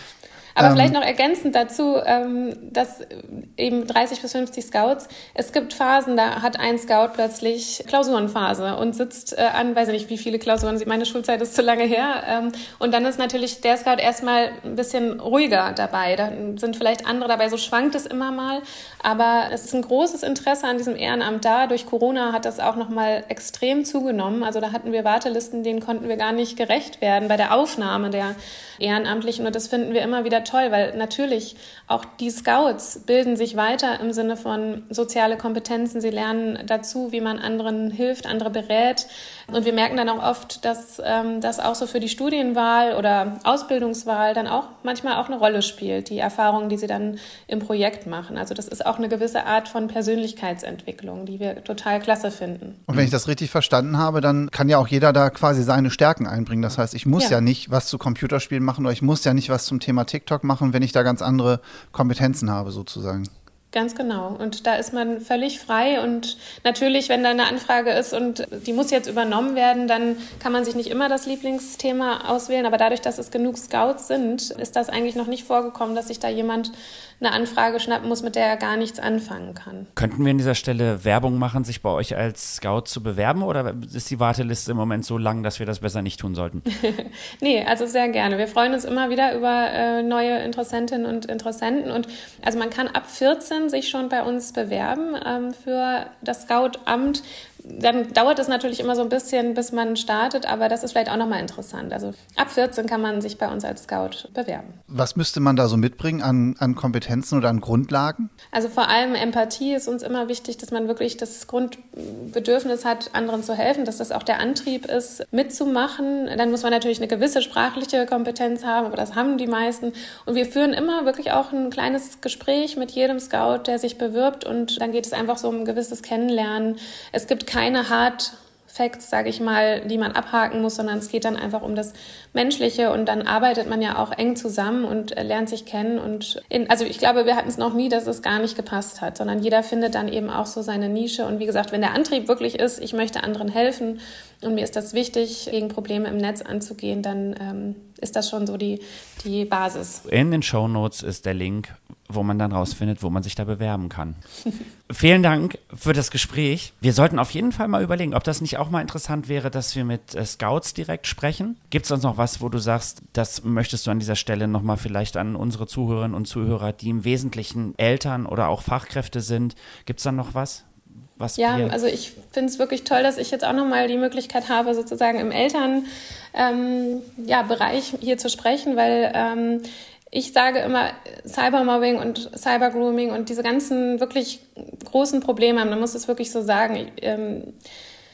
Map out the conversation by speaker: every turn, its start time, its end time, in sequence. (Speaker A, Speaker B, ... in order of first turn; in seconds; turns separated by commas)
Speaker A: 0.6-52.9, Speaker B: 0.6-1.0, Speaker B: 52.9-63.3, Speaker A: 63.7-79.9, Speaker C: 80.0-86.6, Speaker A: 86.7-104.8, Speaker B: 104.9-108.3, Speaker A: 108.5-150.0, Speaker C: 150.1-154.2, Speaker C: 154.9-170.7, Speaker C: 171.2-171.8, Speaker A: 171.4-187.5